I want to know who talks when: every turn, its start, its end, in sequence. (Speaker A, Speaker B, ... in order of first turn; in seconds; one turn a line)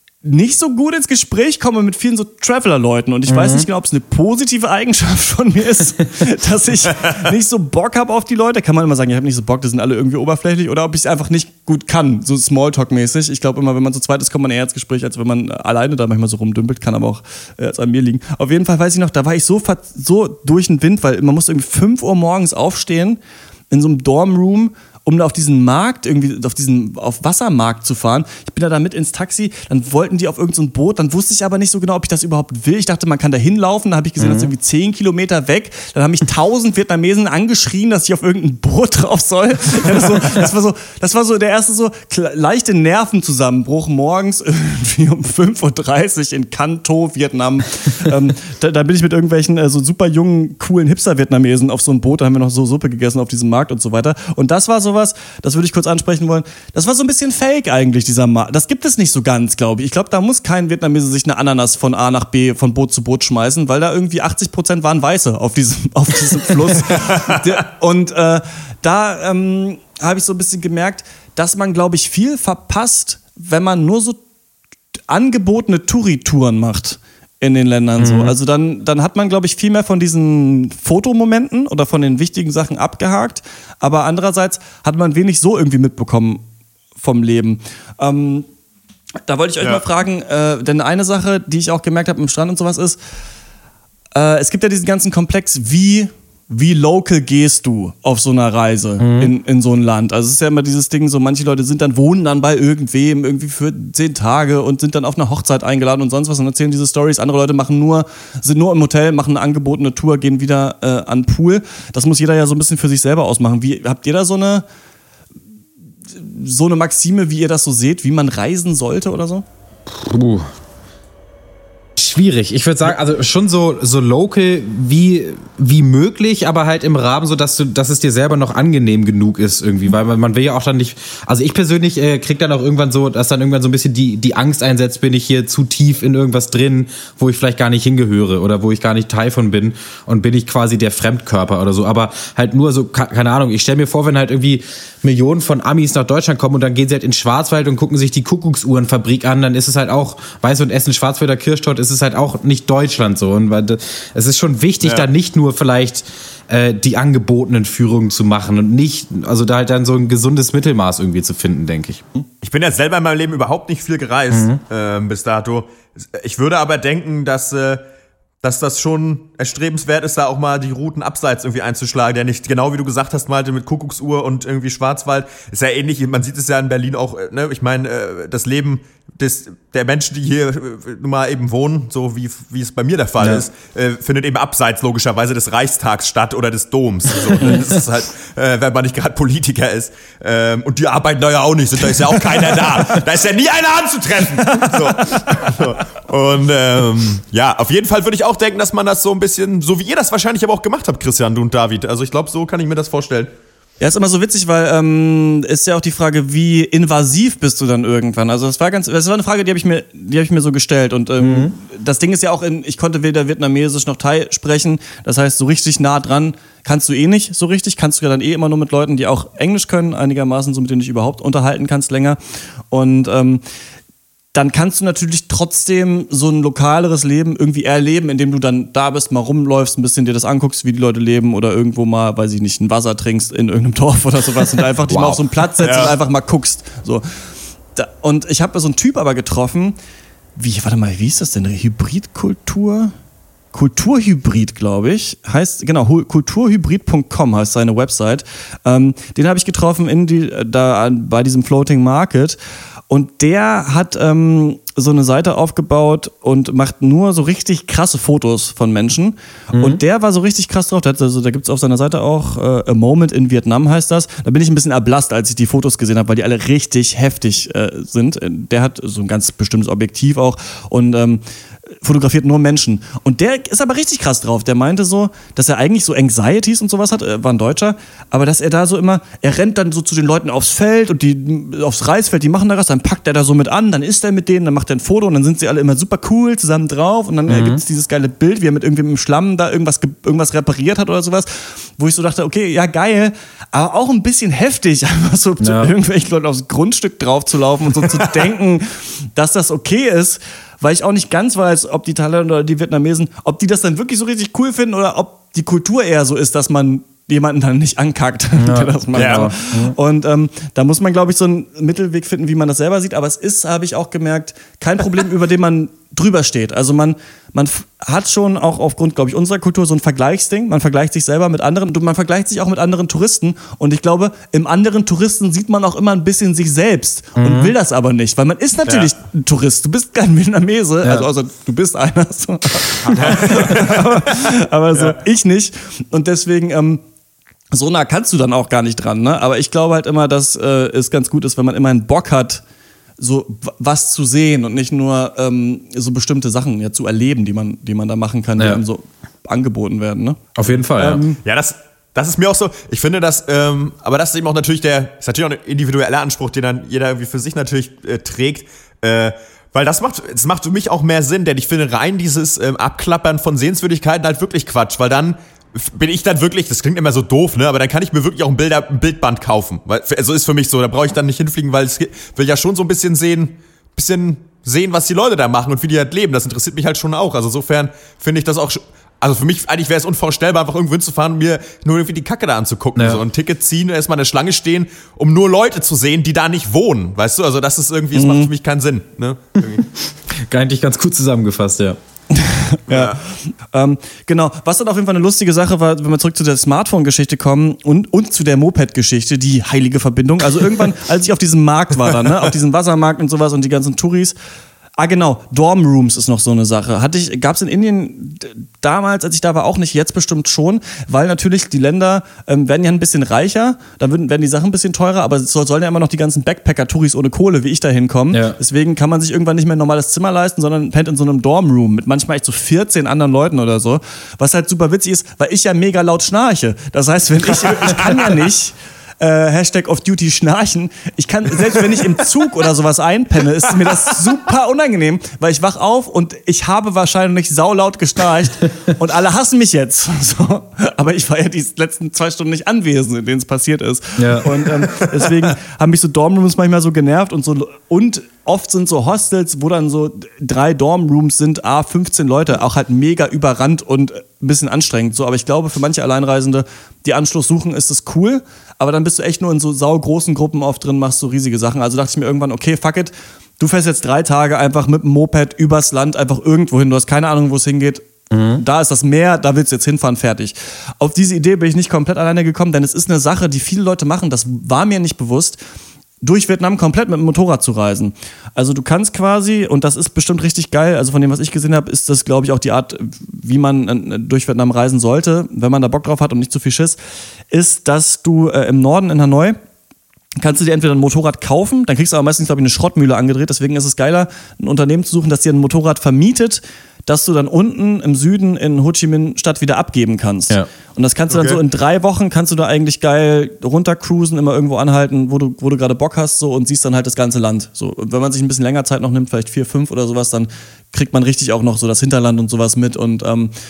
Speaker A: 0.2-74.2
Speaker B: 3.3-3.7
Speaker B: 34.2-34.5
Speaker A: 75.1-86.4
Speaker B: 78.0-78.3
Speaker A: 87.0-88.5
Speaker A: 89.3-93.0
Speaker A: 94.1-114.6
Speaker B: 99.0-99.3
Speaker A: 116.1-119.4
Speaker B: 119.9-120.5
Speaker B: 122.0-162.2
Speaker C: 162.4-167.8
Speaker B: 164.3-164.6
Speaker C: 168.4-203.3
Speaker A: 194.4-195.6
Speaker A: 203.8-222.2
Speaker B: 211.2-211.5
Speaker A: 222.7-223.4
Speaker A: 224.3-237.0
Speaker B: 234.9-235.2
Speaker C: 235.6-235.9
Speaker A: 237.7-239.8
Speaker A: 240.3-242.9
Speaker A: 243.5-252.4
Speaker A: 252.9-271.2
Speaker B: 259.5-259.8
Speaker A: 271.8-336.8
Speaker B: 287.3-287.6
Speaker B: 295.4-295.7
Speaker B: 308.4-309.8
Speaker C: 308.9-309.2
Speaker B: 327.2-327.5
Speaker C: 332.9-334.0
Speaker A: 337.5-342.4
Speaker A: 343.0-350.2
Speaker B: 350.3-351.0
Speaker A: 350.8-351.2
Speaker C: 351.2-389.6
Speaker B: 382.8-383.0
Speaker A: 387.9-388.3
Speaker B: 389.4-391.8
Speaker A: 392.1-393.0
Speaker C: 392.7-393.0
Speaker A: 393.5-404.1
Speaker A: 404.8-475.4
Speaker B: 418.1-418.4
Speaker B: 444.0-444.3
Speaker B: 468.1-468.4
Speaker A: 476.0-486.8
Speaker A: 487.3-489.4
Speaker A: 490.2-513.3
Speaker C: 501.1-501.4